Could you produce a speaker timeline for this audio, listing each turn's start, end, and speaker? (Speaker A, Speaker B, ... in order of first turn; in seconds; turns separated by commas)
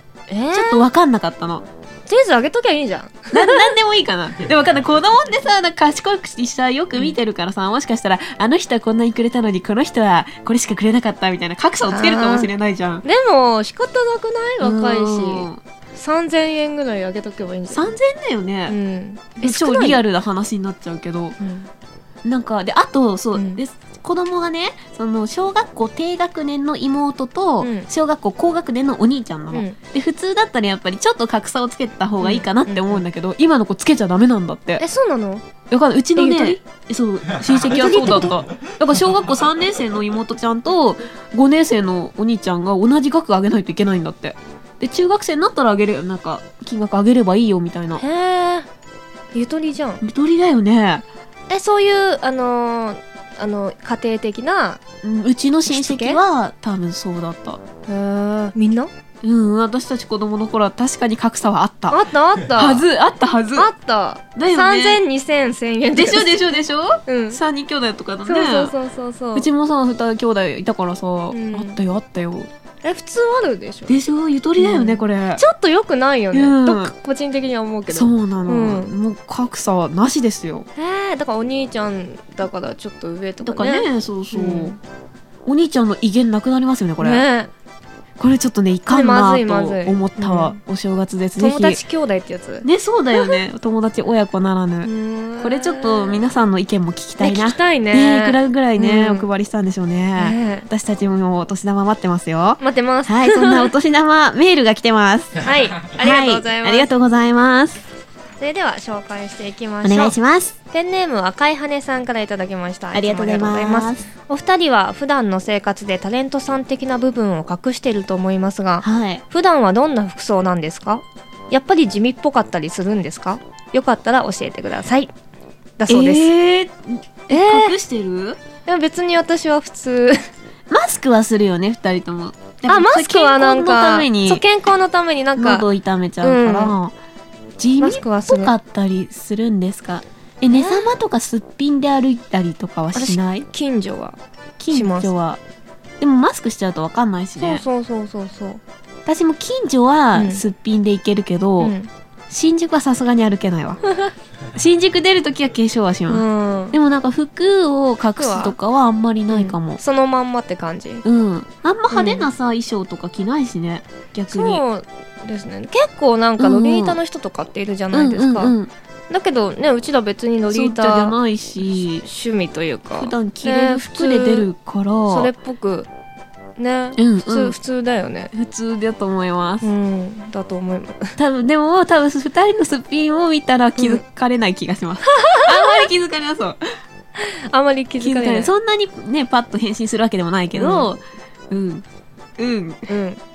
Speaker A: 0.3-0.9, Speaker B: 0.5-1.7, Speaker A: 2.1-3.7, Speaker B: 3.3-13.0, Speaker A: 11.9-12.5, Speaker A: 13.0-17.9, Speaker B: 14.6-15.6, Speaker B: 17.7-18.8, Speaker A: 18.7-20.0, Speaker B: 19.4-21.4, Speaker A: 21.4-21.7, Speaker B: 22.2-34.8, Speaker A: 23.4-23.6, Speaker A: 27.6-27.9, Speaker A: 29.5-29.8, Speaker A: 32.2-33.0, Speaker A: 34.8-35.5, Speaker B: 35.7-48.0, Speaker A: 36.2-36.6, Speaker A: 37.6-38.4, Speaker A: 48.0-48.7, Speaker A: 49.3-50.0, Speaker B: 50.0-51.1, Speaker A: 51.5-54.8, Speaker B: 55.0-57.6, Speaker A: 55.7-56.2, Speaker A: 57.9-58.9, Speaker B: 59.2-62.0, Speaker A: 61.9-62.9, Speaker B: 62.5-63.7, Speaker A: 63.6-66.4, Speaker B: 64.3-65.0, Speaker B: 65.9-68.7, Speaker A: 67.1-67.4, Speaker A: 68.3-69.5, Speaker B: 69.3-72.5, Speaker A: 71.3-71.8, Speaker A: 72.8-74.0, Speaker B: 73.9-75.4, Speaker A: 74.6-78.9, Speaker B: 76.3-76.9, Speaker B: 77.9-80.7, Speaker A: 80.8-84.8, Speaker B: 83.4-84.8, Speaker B: 85.5-87.3, Speaker A: 87.0-87.5, Speaker B: 88.2-91.8, Speaker A: 88.9-90.6, Speaker A: 91.4-93.4, Speaker B: 92.6-107.8, Speaker A: 94.8-96.2, Speaker A: 97.2-99.3, Speaker A: 100.2-100.7, Speaker A: 102.6-103.7, Speaker A: 105.4-106.9, Speaker A: 108.4-110.2, Speaker B: 109.8-110.5, Speaker A: 110.7-125.1, Speaker B: 112.9-114.1, Speaker B: 118.8-119.2, Speaker A: 125.8-126.3, Speaker B: 125.9-128.4, Speaker A: 127.3-127.7, Speaker A: 128.7-130.2, Speaker B: 130.7-134.4, Speaker A: 132.7-135.7, Speaker B: 135.4-136.9, Speaker A: 136.2-136.8, Speaker B: 137.6-143.5, Speaker A: 137.8-138.5, Speaker A: 140.5-140.9, Speaker A: 142.9-144.2, Speaker B: 144.6-145.4, Speaker A: 144.7-145.1, Speaker B: 146.0-147.6, Speaker A: 147.4-148.6, Speaker B: 149.1-151.8, Speaker A: 150.1-150.4, Speaker A: 151.6-151.9, Speaker B: 152.3-153.8, Speaker B: 154.6-159.8, Speaker A: 156.1-156.8, Speaker A: 158.2-158.6, Speaker A: 159.3-161.1, Speaker B: 161.1-164.6, Speaker A: 161.9-162.3, Speaker A: 164.3-168.5, Speaker B: 166.4-167.0, Speaker B: 167.9-168.7, Speaker A: 169.1-171.2, Speaker B: 170.5-172.1, Speaker A: 171.7-174.5, Speaker B: 172.9-175.3, Speaker A: 175.1-175.9, Speaker A: 176.6-178.3, Speaker B: 177.0-177.6, Speaker B: 178.3-179.7, Speaker A: 179.6-181.2, Speaker B: 181.2-186.6, Speaker A: 183.8-184.0, Speaker A: 185.1-185.8, Speaker A: 187.2-188.5, Speaker B: 188.0-191.8, Speaker A: 190.6-190.9, Speaker B: 192.4-192.9, Speaker A: 192.9-193.2